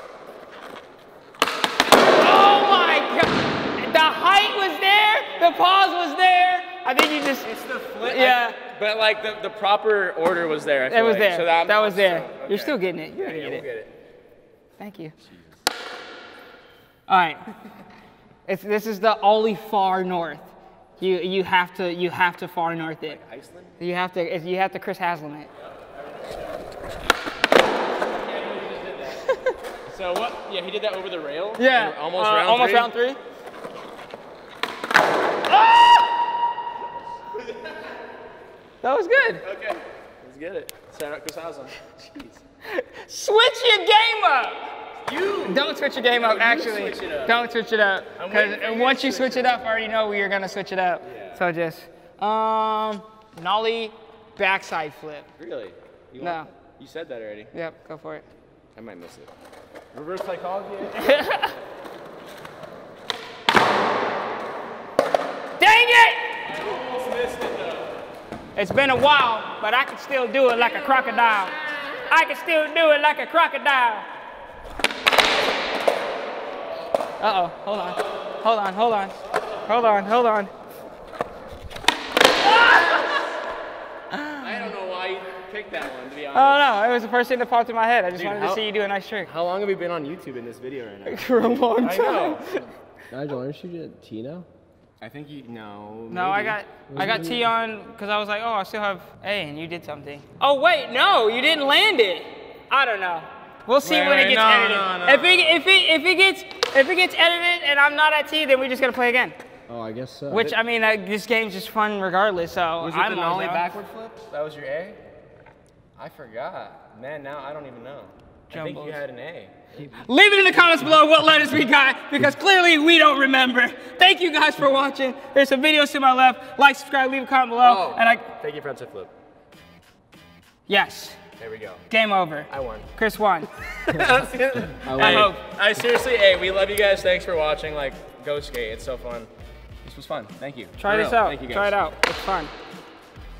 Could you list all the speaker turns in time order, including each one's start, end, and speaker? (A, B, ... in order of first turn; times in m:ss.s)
0:02.2-0:07.5 A
0:07.4-0:13.9 B
0:08.0-0:08.6 A
0:10.9-0:13.6 A
0:14.8-0:15.1 A
0:15.2-0:15.6 B
0:17.1-0:17.4 A
0:18.5-0:23.2 A
0:23.0-0:23.7 B
0:23.8-0:25.5 A
0:25.6-0:26.8 B
0:28.0-0:29.3 B
0:29.9-0:32.9 B
0:31.6-0:33.2 A
0:35.5-0:36.1 A
0:37.4-0:37.8 B
0:38.8-0:39.4 A
0:39.4-0:42.4 B
0:42.6-0:44.7 A
0:45.0-0:47.3 B
0:45.5-0:55.3 A
0:48.2-0:49.6 B
0:51.0-0:51.4 B
0:55.4-0:57.5 B
0:56.2-0:56.5 A
0:57.5-0:58.2 A
0:58.7-0:59.3 B
0:59.9-1:01.0 B
1:01.0-1:01.5 A
1:05.6-1:06.4 A
1:06.4-1:08.0 B
1:08.6-1:14.1 A
1:17.2-1:20.5 A
1:22.6-1:23.0 A
1:24.1-1:24.5 A
1:24.4-1:26.6 B
1:26.3-1:29.3 A
1:28.1-1:28.6 B
1:29.2-1:32.6 B
1:31.1-1:32.6 A
1:33.1-1:34.5 C
1:35.0-1:36.6 B
1:36.1-1:49.4 A
1:36.9-1:37.5 C
1:43.8-1:45.6 B
1:49.7-1:50.6 C
1:50.3-1:53.6 A
1:52.8-1:55.0 B
1:56.0-1:59.6 B
1:58.5-1:59.0 A
2:00.0-2:08.2 A
2:07.6-2:09.1 B
2:10.7-2:11.2 A
2:11.4-2:11.8 B
2:11.9-2:13.5 A
2:12.5-2:12.9 B
2:13.8-2:19.3 B
2:14.8-2:15.3 C
2:14.9-2:15.4 A
2:19.8-2:21.7 B
2:20.8-2:22.5 A